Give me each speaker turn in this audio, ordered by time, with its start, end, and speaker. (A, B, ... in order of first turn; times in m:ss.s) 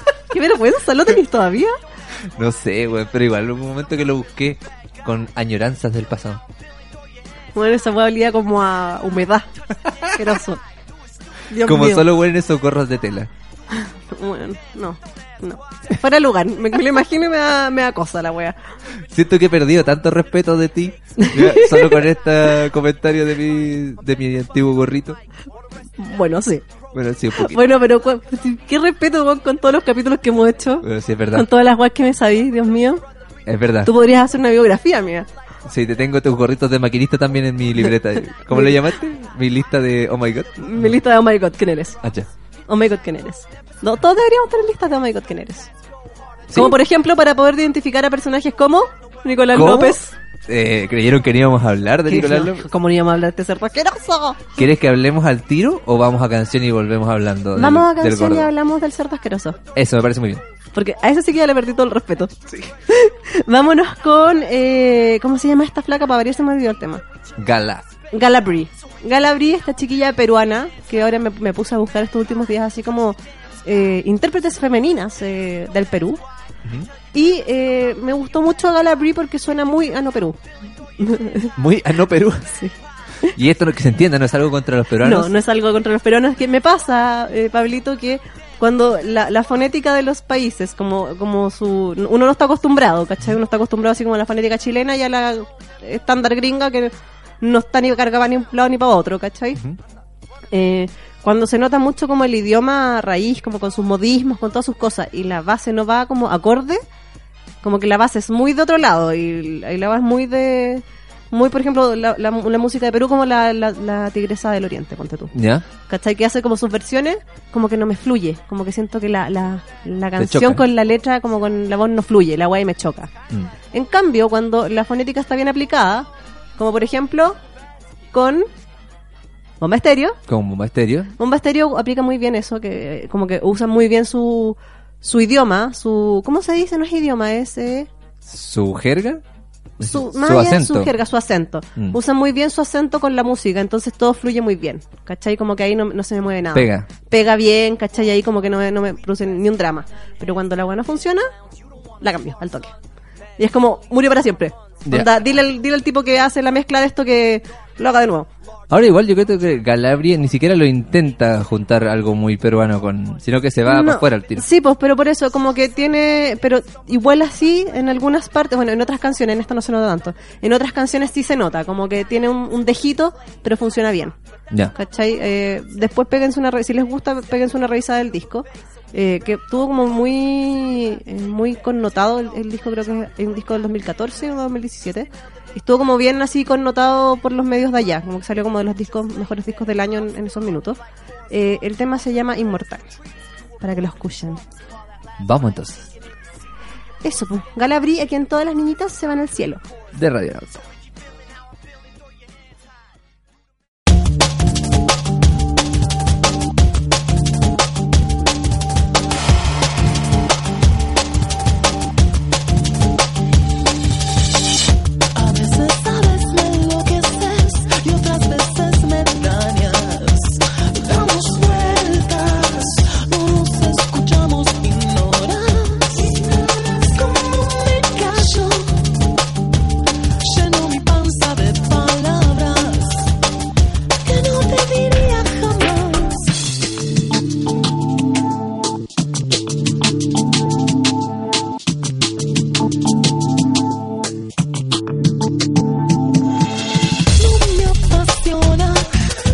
0:00.3-0:01.7 A
0:02.3-0:06.4 B
0:07.5-0:09.5 A
0:10.0-0:10.6 A
0:11.5-0:12.1 A
0:11.6-0:13.3 B
0:13.7-0:18.5 A
0:19.1-0:25.2 B
0:21.2-0:22.0 A
0:26.0-0:26.6 A
0:26.9-0:27.7 B
0:27.3-0:33.0 A
0:30.8-0:31.5 B
0:33.5-0:33.9 B
0:33.8-0:35.3 A
0:35.6-0:41.0 B
0:38.5-0:38.8 A
0:40.6-0:42.0 A
0:42.0-0:42.3 B
0:42.7-0:45.7 A
0:46.5-0:46.8 B
0:46.5-0:50.1 A
0:49.5-0:52.7 B
0:52.1-0:54.6 A
0:54.6-0:58.5 B
0:57.5-0:59.6 A
0:59.7-1:00.4 B
1:00.7-1:02.3 A
1:02.9-1:07.0 A
1:07.4-1:07.8 B
1:08.1-1:16.2 A
1:16.6-1:16.9 B
1:17.1-1:20.4 A
1:21.0-1:21.5 A
1:21.6-1:22.6 B
1:22.5-1:23.4 A
1:23.3-1:25.3 B
1:25.0-1:39.6 A
1:40.5-1:46.8 A
1:47.6-1:55.3 A
1:55.3-1:55.6 B
1:55.9-2:03.1 A
2:00.2-2:00.6 B
2:03.7-2:07.4 A
2:08.1-2:08.5 A
2:09.6-2:10.2 A
2:10.3-2:11.1 B
2:11.2-2:17.9 A
2:18.2-2:19.2 B
2:19.8-2:20.9 B
2:19.8-2:31.2 A
2:26.5-2:26.9 B
2:32.0-2:32.7 A
2:33.4-2:38.3 A
2:34.8-2:35.2 B
2:38.7-2:44.4 B
2:43.6-2:54.1 A
2:54.7-3:10.8 A
3:11.3-3:12.9 A
3:13.6-3:14.4 A
3:15.2-3:15.9 B
3:17.0-3:19.6 A
3:19.9-3:20.6 B
3:35.1-3:48.8 C
3:50.2-3:53.1 C
3:54.0-3:56.4 C
4:07.1-4:09.0 C